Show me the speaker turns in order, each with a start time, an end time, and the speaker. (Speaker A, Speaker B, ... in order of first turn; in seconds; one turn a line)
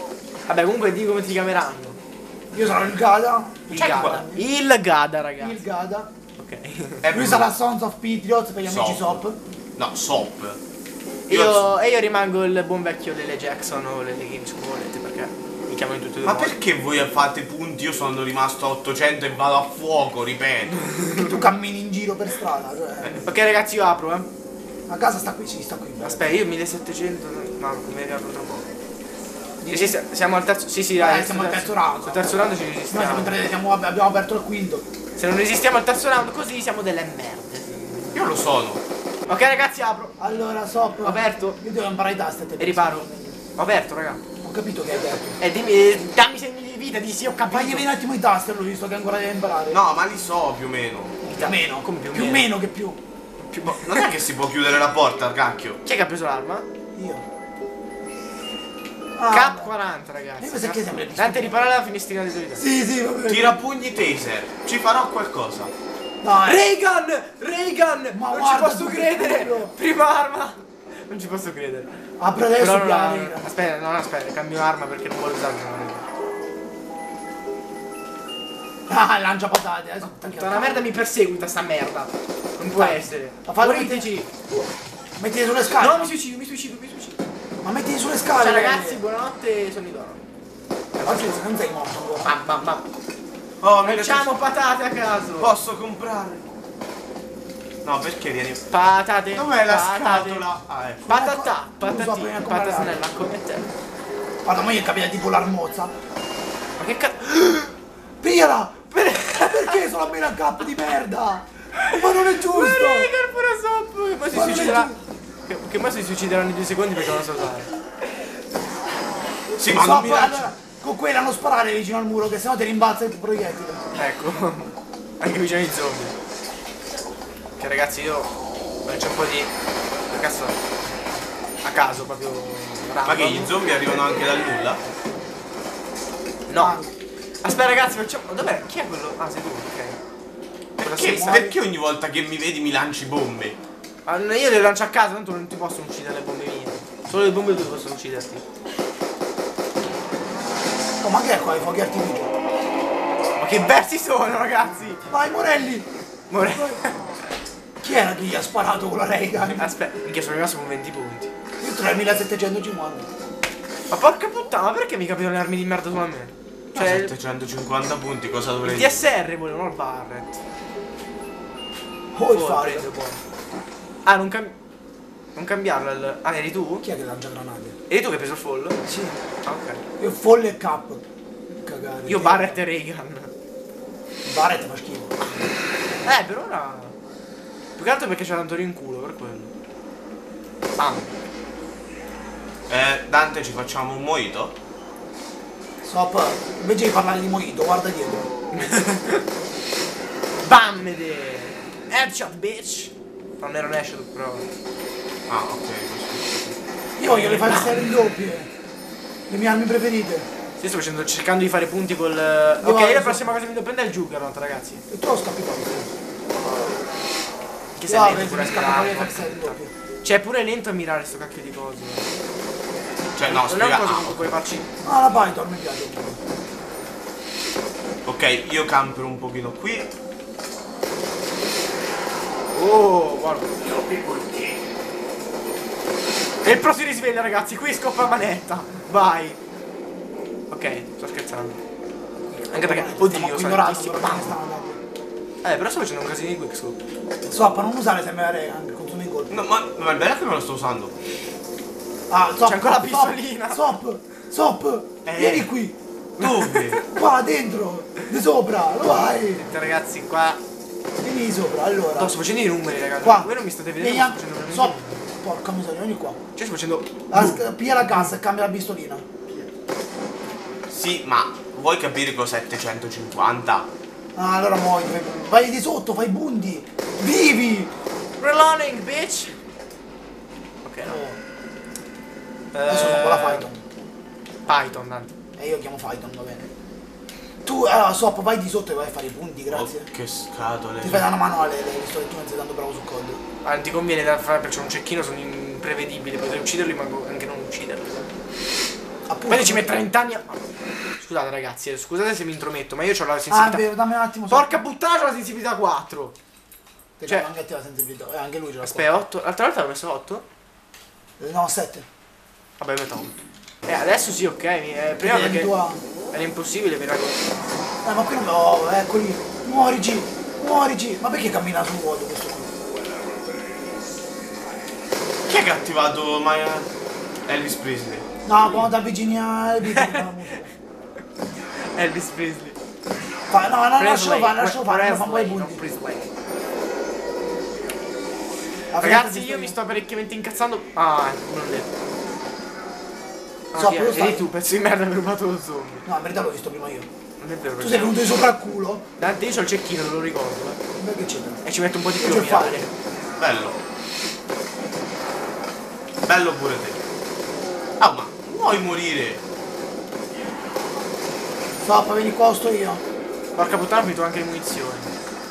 Speaker A: 0.5-2.0
Speaker B: 2.5-4.5
Speaker A: 3.7-5.6
Speaker C: 3.8-4.2
Speaker B: 5.4-6.1
Speaker A: 6.4-7.0
Speaker C: 7.0-7.5
Speaker B: 7.1-9.4
Speaker C: 8.6-9.2
Speaker C: 9.8-10.6
Speaker A: 11.3-16.5
Speaker C: 11.3-11.7
Speaker C: 16.2-20.9
Speaker B: 21.1-23.2
Speaker A: 23.2-24.3
Speaker B: 24.9-26.4
Speaker A: 26.0-28.6
Speaker B: 29.6-30.0
Speaker A: 29.7-33.4
Speaker B: 31.0-34.8
Speaker A: 35.2-38.1
Speaker C: 38.1-38.8
Speaker A: 39.3-40.1
Speaker B: 40.2-43.4
Speaker A: 41.0-41.6
Speaker A: 42.6-44.2
Speaker B: 44.4-45.3
Speaker A: 45.4-47.9
Speaker B: 47.5-49.8
Speaker C: 49.7-51.2
Speaker B: 51.2-53.0
Speaker A: 51.3-52.5
Speaker A: 53.5-54.1
Speaker C: 53.6-55.8
Speaker A: 55.8-56.6
Speaker B: 56.9-57.2
Speaker B: 59.1-59.7
Speaker A: 59.3-62.6
Speaker B: 60.4-61.8
Speaker B: 62.6-63.5
Speaker C: 63.3-65.7
Speaker B: 66.2-66.7
Speaker A: 66.4-71.9
Speaker B: 68.1-69.7
Speaker B: 72.2-73.4
Speaker A: 72.6-76.0
Speaker B: 78.9-80.9
Speaker A: 80.0-84.3
Speaker B: 82.6-84.1
Speaker B: 85.2-86.1
Speaker A: 85.8-87.2
Speaker B: 87.6-89.0
Speaker A: 88.3-90.2
Speaker A: 90.9-91.4
Speaker B: 91.0-92.3
Speaker A: 92.2-92.8
Speaker C: 93.6-94.4
Speaker A: 93.8-95.5
Speaker C: 95.4-96.4
Speaker C: 97.8-98.7
Speaker A: 98.7-100.4
Speaker C: 99.3-101.1
Speaker B: 101.1-103.3
Speaker A: 101.1-103.7
Speaker B: 104.4-105.9
Speaker A: 106.8-107.7
Speaker B: 108.2-113.1
Speaker A: 108.9-109.8
Speaker A: 111.8-114.9
Speaker B: 114.3-115.0
Speaker A: 115.5-117.7
Speaker C: 119.6-120.5
Speaker B: 119.7-123.8
Speaker A: 124.0-126.1
Speaker A: 127.6-128.3
Speaker A: 128.9-129.5
Speaker A: 130.1-130.6
Speaker A: 131.6-133.5
Speaker C: 133.1-134.8
Speaker A: 136.5-136.8
Speaker B: 136.6-136.9
Speaker A: 137.4-140.0
Speaker C: 140.8-143.6
Speaker A: 140.8-141.5
Speaker B: 141.1-141.5
Speaker A: 144.1-148.4
Speaker B: 151.0-152.3
Speaker A: 153.4-155.1
Speaker B: 155.1-155.9
Speaker A: 156.3-156.9
Speaker B: 156.4-156.8
Speaker B: 157.8-159.6
Speaker A: 159.6-161.3
Speaker B: 161.6-163.1
Speaker A: 163.9-167.1
Speaker C: 166.7-169.0
Speaker A: 168.6-170.4
Speaker B: 172.1-173.1
Speaker A: 172.3-173.2
Speaker A: 174.0-174.5
Speaker A: 175.3-176.8
Speaker B: 176.8-177.8
Speaker A: 177.9-178.8
Speaker B: 178.8-179.1
Speaker A: 179.4-179.8
Speaker B: 180.0-181.0
Speaker B: 181.6-182.6
Speaker A: 182.1-183.3
Speaker B: 184.2-185.2
Speaker A: 186.0-186.9
Speaker A: 187.8-189.5
Speaker A: 190.8-191.1
Speaker C: 192.7-194.5
Speaker B: 195.8-198.3
Speaker A: 198.5-199.2
Speaker A: 200.4-204.5
Speaker C: 205.3-206.6
Speaker B: 207.0-208.5
Speaker A: 207.0-207.9
Speaker B: 209.3-210.3
Speaker A: 210.6-214.8
Speaker B: 212.6-213.3
Speaker B: 214.9-215.9
Speaker A: 217.8-222.1
Speaker B: 217.8-219.7
Speaker C: 223.2-224.5
Speaker A: 223.2-224.7
Speaker B: 224.8-226.2
Speaker C: 228.1-229.9
Speaker A: 232.5-233.5
Speaker A: 236.4-239.4
Speaker A: 240.5-241.6
Speaker A: 242.3-244.3
Speaker B: 242.5-244.8
Speaker A: 245.4-246.8
Speaker B: 247.2-249.4
Speaker C: 249.3-250.9
Speaker B: 252.1-255.7
Speaker A: 252.4-253.7
Speaker C: 255.0-255.5
Speaker C: 256.2-256.8
Speaker A: 256.2-256.8
Speaker B: 256.9-259.4
Speaker A: 259.4-260.4
Speaker B: 261.0-262.1
Speaker A: 261.9-265.1
Speaker B: 263.0-266.2
Speaker A: 266.4-267.4
Speaker B: 267.1-269.1
Speaker C: 270.7-273.7
Speaker B: 274.1-277.7
Speaker A: 278.2-279.4
Speaker A: 280.6-281.0
Speaker B: 280.8-281.2
Speaker A: 282.5-283.5
Speaker B: 282.6-283.6
Speaker A: 284.4-285.1
Speaker B: 285.4-286.5
Speaker B: 287.4-289.9
Speaker C: 289.5-291.0
Speaker B: 290.8-293.2
Speaker A: 293.4-298.1
Speaker B: 299.1-299.8
Speaker A: 299.3-300.4
Speaker A: 301.0-303.7
Speaker B: 303.3-304.6
Speaker A: 304.3-306.1
Speaker B: 307.0-308.9
Speaker A: 308.6-310.2
Speaker B: 311.2-311.9
Speaker A: 312.6-315.5
Speaker B: 315.0-315.8
Speaker A: 316.1-317.2
Speaker B: 317.8-322.5
Speaker C: 325.3-326.7
Speaker C: 327.2-328.1
Speaker B: 328.2-330.5
Speaker A: 329.7-330.0
Speaker A: 331.7-332.6
Speaker B: 333.3-335.6
Speaker A: 333.8-336.1
Speaker B: 338.7-339.6
Speaker A: 338.8-341.7
Speaker A: 343.5-345.8
Speaker B: 343.5-344.3
Speaker B: 345.8-346.9
Speaker A: 347.2-348.0
Speaker B: 347.6-348.8
Speaker A: 349.0-350.6
Speaker B: 350.8-351.4
Speaker A: 351.4-352.7
Speaker B: 352.0-352.7
Speaker C: 353.2-353.6
Speaker C: 356.1-356.8
Speaker C: 357.8-359.2
Speaker B: 361.6-362.8
Speaker A: 363.3-364.9